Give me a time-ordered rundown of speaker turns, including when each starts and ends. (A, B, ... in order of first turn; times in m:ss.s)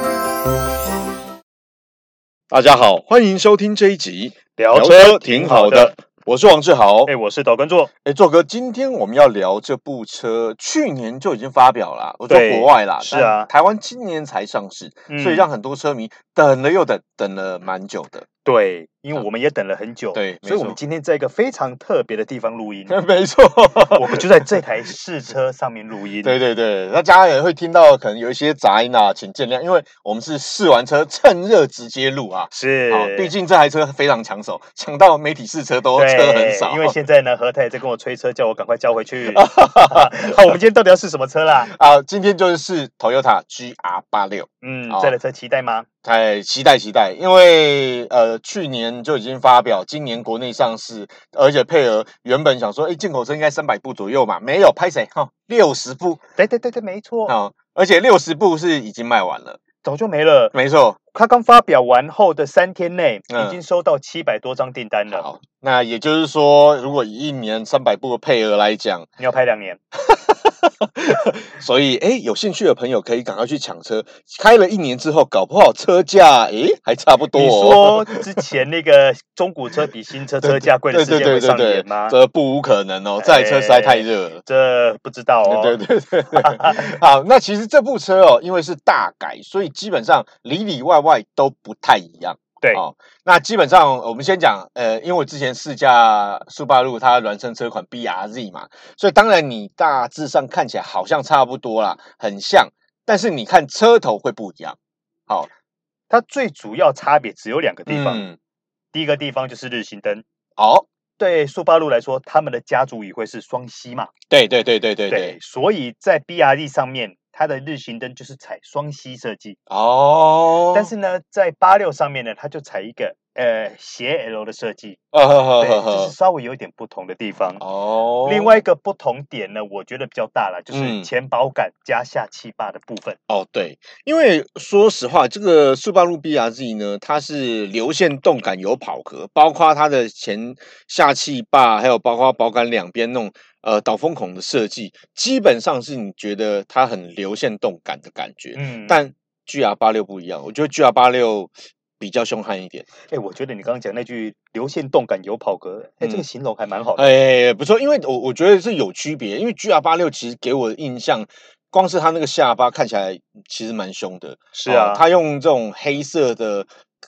0:02.5-0:07.1 A
0:04.6-0:05.9 B
0:07.0-0:07.9 B
0:08.0-0:18.2 A
0:12.3-0:13.5 B
0:15.1-0:15.5 B
0:18.4-0:23.0 B
0:20.1-0:20.8 A
0:22.9-0:24.2 A
0:23.9-0:26.4 B
0:26.2-0:37.0 A
0:32.5-0:33.3 B
0:35.9-0:41.7 B
0:39.3-0:40.4 A
0:41.7-0:45.1 A
0:44.6-0:45.9 B
0:46.0-0:56.2 A
0:56.4-0:57.3 B
0:57.3-0:59.6 A
0:59.8-1:00.5 B
1:00.5-1:01.0 A
1:01.1-1:05.2 B
1:03.3-1:03.6 A
1:05.1-1:09.1 A
1:09.2-1:09.8 B
1:10.0-1:18.0 A
1:17.3-1:22.2 B
1:20.4-1:24.4 A
1:23.2-1:25.8 B
1:25.4-1:45.5 A
1:26.3-1:27.0 B
1:46.1-1:48.2 B
1:47.9-1:48.4 A
1:48.9-1:50.2 B
1:50.6-1:50.8 A
1:51.2-1:54.1 B
1:54.3-1:55.4 A
1:55.1-1:59.6 B
1:59.7-2:00.9 A
2:00.7-2:05.0 B
2:05.1-2:06.1 A
2:05.6-2:07.6 B
2:07.6-2:08.6 A
2:08.2-2:13.2 B
2:10.7-2:11.1 A
2:13.3-2:32.8 A
2:28.5-2:29.0 B
2:33.1-2:37.1 B
2:37.0-2:46.7 A
2:44.5-2:45.0 B